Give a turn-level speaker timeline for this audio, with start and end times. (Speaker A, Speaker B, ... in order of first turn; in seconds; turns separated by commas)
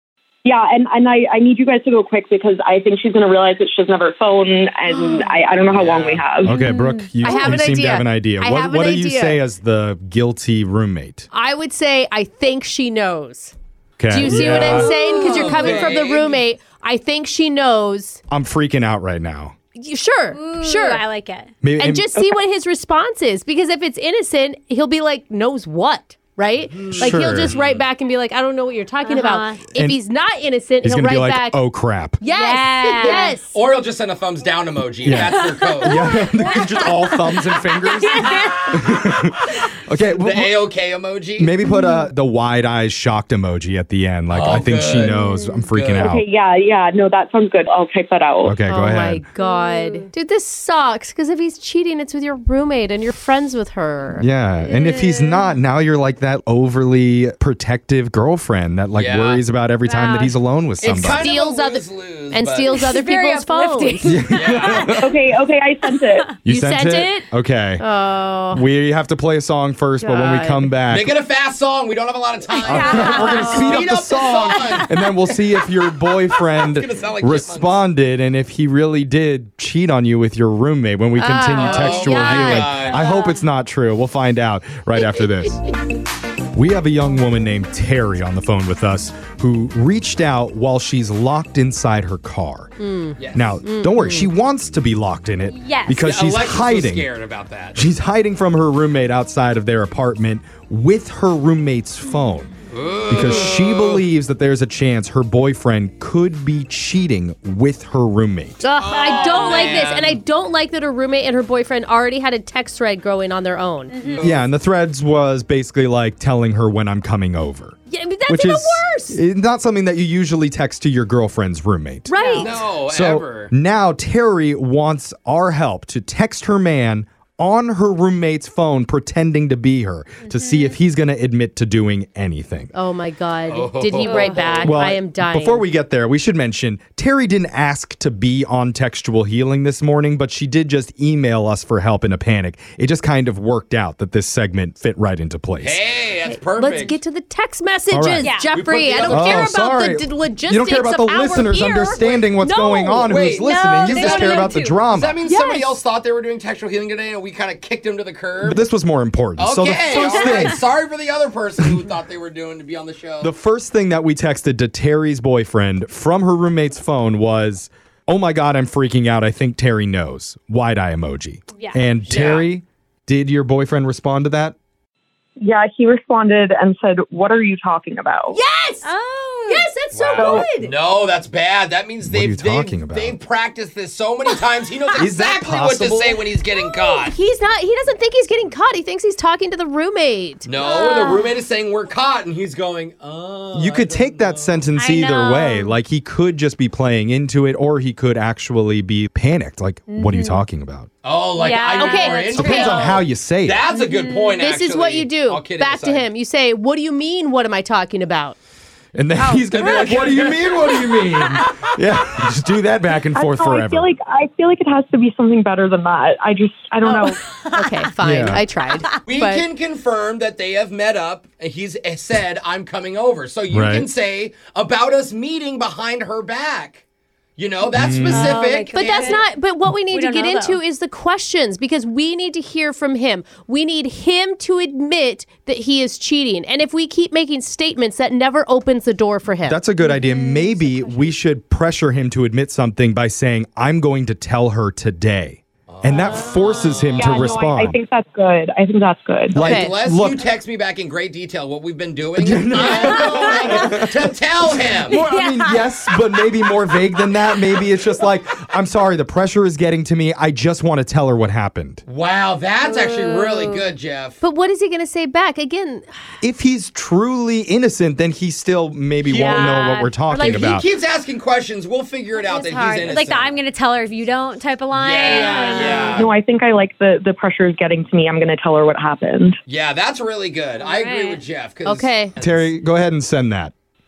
Speaker A: 0.4-6.5, Speaker B: 4.9-5.4, Speaker C: 5.7-6.3, Speaker D: 6.4-11.3, Speaker B: 6.5-7.4, Speaker E: 7.2-9.4, Speaker E: 11.3-13.5, Speaker D: 14.0-14.9, Speaker E: 14.1-18.2, Speaker B: 14.2-15.6, Speaker C: 14.4-16.4, Speaker D: 18.3-19.5, Speaker E: 19.7-21.0, Speaker B: 20.3-21.5, Speaker D: 21.6-22.3, Speaker E: 21.8-31.6, Speaker C: 26.7-27.9, Speaker D: 26.9-27.5, Speaker B: 29.0-29.6, Speaker D: 29.7-30.0, Speaker D: 30.8-32.2, Speaker E: 32.2-33.5, Speaker B: 32.2-33.4, Speaker C: 33.4-36.1, Speaker D: 35.0-39.3, Speaker B: 35.2-38.9, Speaker C: 38.4-38.9, Speaker D: 39.9-40.6, Speaker C: 39.9-41.5, Speaker D: 41.4-46.2, Speaker E: 41.6-42.0, Speaker C: 44.3-45.1, Speaker E: 45.1-45.4, Speaker B: 45.1-45.6, Speaker C: 45.7-46.1, Speaker A: 46.0-48.6, Speaker D: 48.4-49.2, Speaker E: 48.6-54.3, Speaker B: 49.4-50.1, Speaker D: 54.2-61.2, Speaker B: 54.6-55.5, Speaker C: 58.9-59.4, Speaker B: 59.8-60.4, Speaker C: 60.8-62.8, Speaker E: 61.0-64.2, Speaker B: 62.8-64.2, Speaker D: 64.0-65.2, Speaker C: 64.3-64.9, Speaker B: 64.8-65.0, Speaker A: 65.0-66.3, Speaker D: 66.4-67.8, Speaker E: 66.5-67.3, Speaker E: 67.8-68.6, Speaker D: 68.5-71.1, Speaker E: 70.0-70.7, Speaker C: 70.9-77.8, Speaker B: 72.5-73.8, Speaker D: 72.6-85.6, Speaker B: 74.3-74.8, Speaker E: 81.2-82.9, Speaker C: 81.5-83.1, Speaker B: 83.0-83.4, Speaker D: 86.5-92.7, Speaker E: 92.8-94.3, Speaker C: 93.2-93.6, Speaker D: 93.3-97.1, Speaker B: 95.5-96.2, Speaker C: 96.0-97.8, Speaker D: 97.7-102.5, Speaker C: 102.7-104.0, Speaker D: 103.1-108.6, Speaker E: 108.6-113.9, Speaker C: 108.8-110.2, Speaker B: 113.9-114.3, Speaker C: 114.0-114.5, Speaker D: 114.2-122.2, Speaker E: 117.9-119.2, Speaker E: 122.1-122.6, Speaker B: 122.1-122.5, Speaker C: 122.3-123.5, Speaker D: 122.8-132.7, Speaker B: 130.2-130.8, Speaker E: 132.7-135.7, Speaker C: 133.5-134.8, Speaker B: 134.0-134.8, Speaker D: 134.6-145.8, Speaker C: 145.6-147.0, Speaker E: 146.3-153.1, Speaker D: 147.9-148.3, Speaker B: 148.2-148.5, Speaker C: 148.5-149.5, Speaker D: 149.0-155.2, Speaker C: 153.0-158.6, Speaker B: 153.4-154.8, Speaker E: 155.3-155.7, Speaker D: 158.4-160.6, Speaker C: 159.4-163.3, Speaker D: 163.2-174.5, Speaker B: 171.5-171.8, Speaker C: 172.0-172.5, Speaker A: 175.4-178.4, Speaker E: 178.3-178.9, Speaker B: 178.8-179.7, Speaker E: 179.5-180.7, Speaker C: 179.9-187.2, Speaker A: 180.2-180.5, Speaker D: 182.0-183.2, Speaker D: 184.9-186.2, Speaker E: 186.6-191.0, Speaker C: 190.4-194.7, Speaker B: 190.6-191.3, Speaker D: 193.5-200.9, Speaker B: 194.7-195.7, Speaker B: 199.9-200.4, Speaker C: 201.0-206.1, Speaker B: 201.3-202.9, Speaker E: 201.8-202.8, Speaker D: 202.3-203.6, Speaker B: 203.9-204.3, Speaker E: 204.3-208.4, Speaker D: 208.9-213.9, Speaker B: 209.2-209.9, Speaker C: 209.5-211.2, Speaker B: 211.2-211.5, Speaker A: 213.1-217.2, Speaker B: 216.8-217.9, Speaker E: 217.5-219.5, Speaker D: 218.0-218.4, Speaker C: 219.1-226.8, Speaker D: 223.5-223.9, Speaker C: 227.4-229.2, Speaker D: 227.7-228.3, Speaker B: 228.0-229.3, Speaker E: 228.7-239.6, Speaker B: 229.9-230.6, Speaker D: 239.4-247.8, Speaker B: 239.8-241.1, Speaker C: 245.7-247.3, Speaker A: 247.0-249.4, Speaker D: 249.3-250.2, Speaker E: 249.3-249.7, Speaker C: 249.3-255.1, Speaker D: 252.2-254.1, Speaker B: 253.0-253.6, Speaker D: 254.9-261.8, Speaker B: 254.9-255.7, Speaker C: 261.9-264.2, Speaker E: 262.6-263.3, Speaker E: 264.2-265.9, Speaker D: 266.2-270.7, Speaker C: 269.0-273.4, Speaker B: 269.2-270.4, Speaker B: 272.2-275.9, Speaker C: 274.7-276.1, Speaker A: 275.1-279.4, Speaker E: 275.2-276.0, Speaker C: 279.5-282.5, Speaker B: 280.6-281.2, Speaker E: 281.6-282.1, Speaker D: 282.2-283.5